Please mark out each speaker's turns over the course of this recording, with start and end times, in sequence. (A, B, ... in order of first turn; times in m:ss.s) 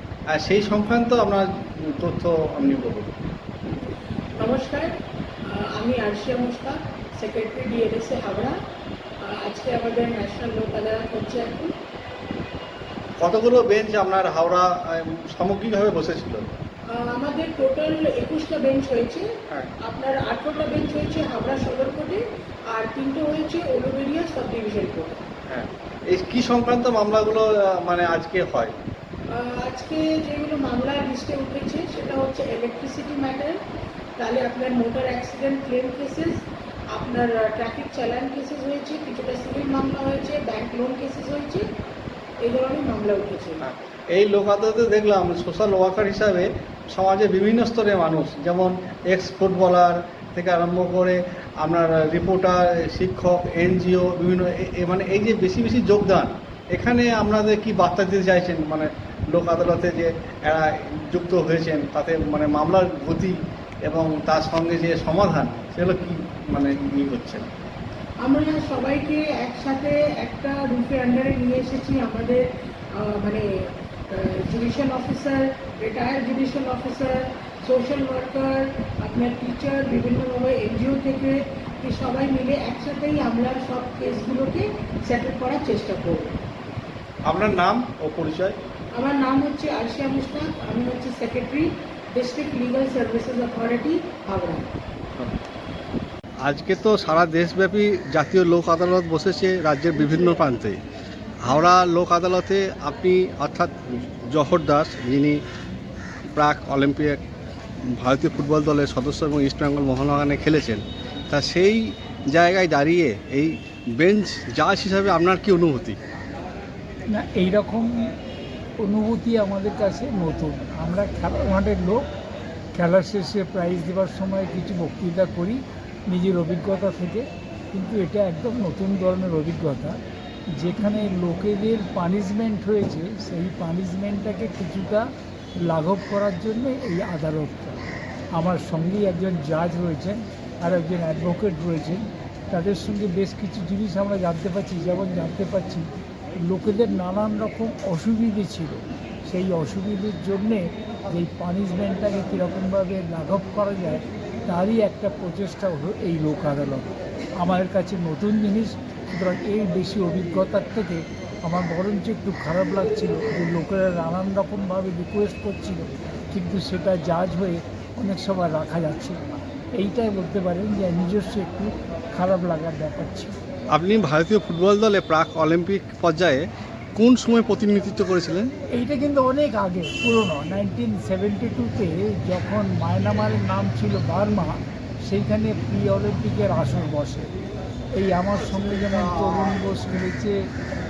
0:00.3-0:03.1 A
0:04.4-0:04.9 B
0:05.4-0:08.6 B
0:09.2-0:11.7 B
0:13.2-0:16.5 A
0:16.9-0:25.2 B
0:25.5-0:28.7 A
0:29.3-0:33.6 B
0:34.2-0:36.4 B
0:36.9-0:41.6 B
0:42.4-0:43.6 B
0:43.6-1:03.3 A
1:03.8-1:07.5 A
1:08.2-1:13.4 B
1:14.1-1:26.4 B
1:27.2-1:28.6 A
1:28.9-1:34.7 B
1:36.4-1:40.8 A
1:41.4-1:45.4 A
1:46.3-1:47.2 A
1:47.9-1:56.0 A
1:57.1-1:58.1 C
1:58.8-2:02.0 C
2:02.7-2:10.0 C
2:10.5-2:17.8 C
2:18.3-2:36.9 C
2:37.4-2:53.3 C
2:53.7-2:56.4 A
2:56.9-2:58.5 A
2:58.7-3:07.3 C
3:07.9-3:10.5 C